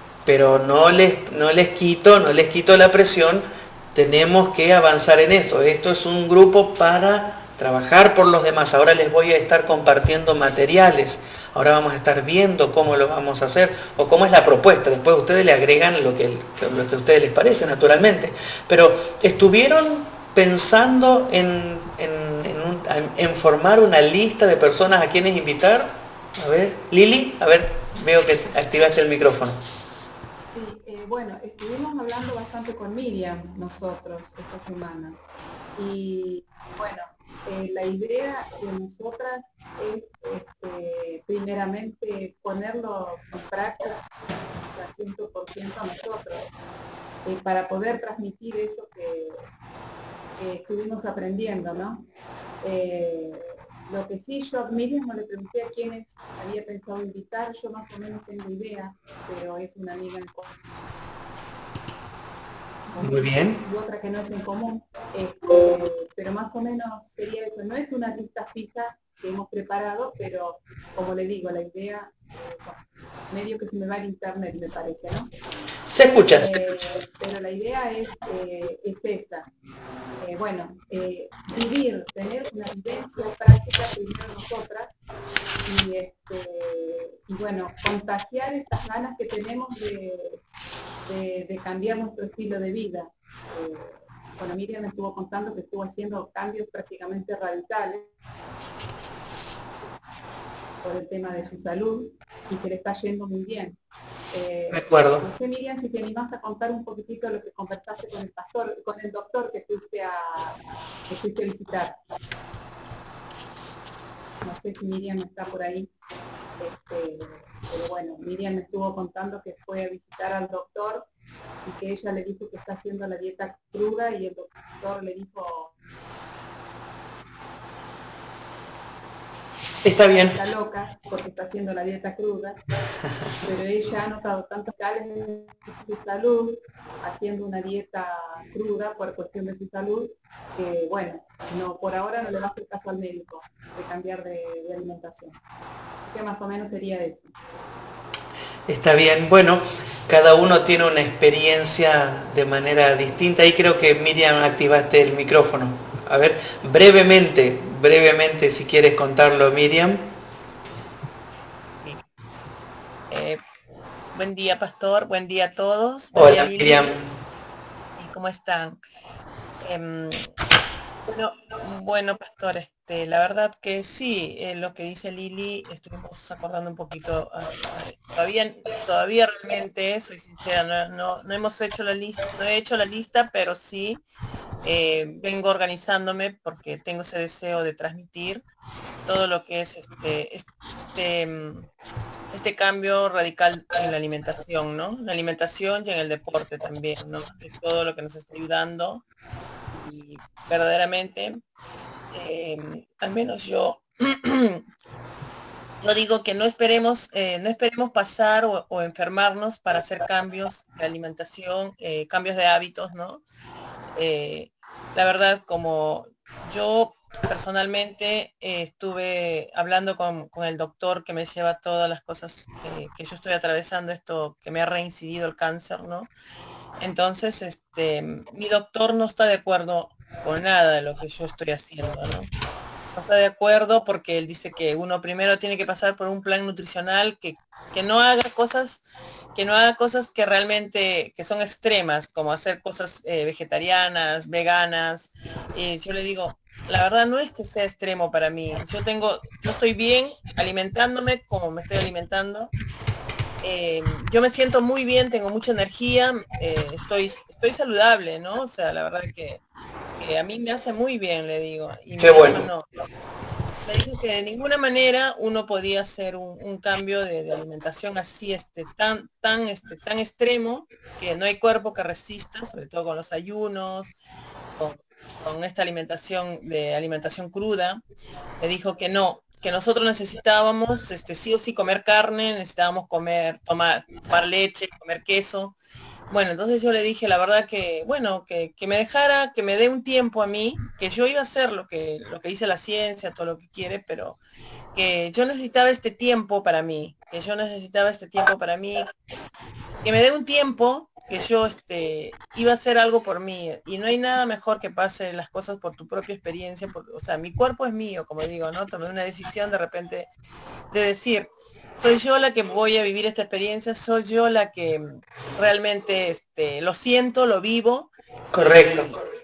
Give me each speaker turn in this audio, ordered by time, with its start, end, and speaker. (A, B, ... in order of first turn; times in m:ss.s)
0:00.2-0:29.6 A
0:30.4-0:35.2 B
0:35.8-0:46.5 B
0:47.2-0:49.5 B
0:50.4-0:52.0 B
0:52.6-1:00.6 B
1:02.9-1:15.3 B
1:03.0-1:03.6 A
1:15.9-1:16.8 A
1:16.3-1:19.5 B
1:20.2-1:24.9 B
1:25.6-1:30.4 B
1:31.0-1:38.1 B
1:40.8-1:43.8 B
1:44.3-1:50.6 B
1:44.7-1:45.2 A
1:51.1-1:52.0 B
1:54.4-1:55.9 B
1:56.6-2:01.0 B
2:01.6-2:05.7 B
2:09.8-2:10.4 A
2:10.2-2:12.6 B
2:13.4-2:25.4 B
2:26.0-2:27.3 B
2:28.7-2:40.1 A
2:43.1-2:43.4 C
2:44.1-2:46.9 C
2:46.2-2:47.1 A
2:48.0-2:48.8 C
2:49.6-2:50.3 C
2:51.0-3:04.0 C
3:04.6-3:08.4 C
3:09.0-3:11.7 C
3:12.3-3:19.0 C
3:19.7-3:21.4 C
3:22.1-3:24.6 C
3:25.8-3:33.2 C
3:33.9-3:46.1 C
3:46.8-3:52.3 C
3:52.9-3:58.8 C
3:59.3-4:12.5 C
4:13.4-4:19.4 C
4:20.0-4:22.7 C
4:22.0-4:22.5 A
4:23.6-4:33.9 C
4:34.6-4:37.8 C
4:38.4-4:45.5 C
4:46.1-4:54.2 C
4:54.7-4:58.9 C
4:59.8-5:10.1 C
5:10.7-5:19.0 C
5:18.3-5:18.9 A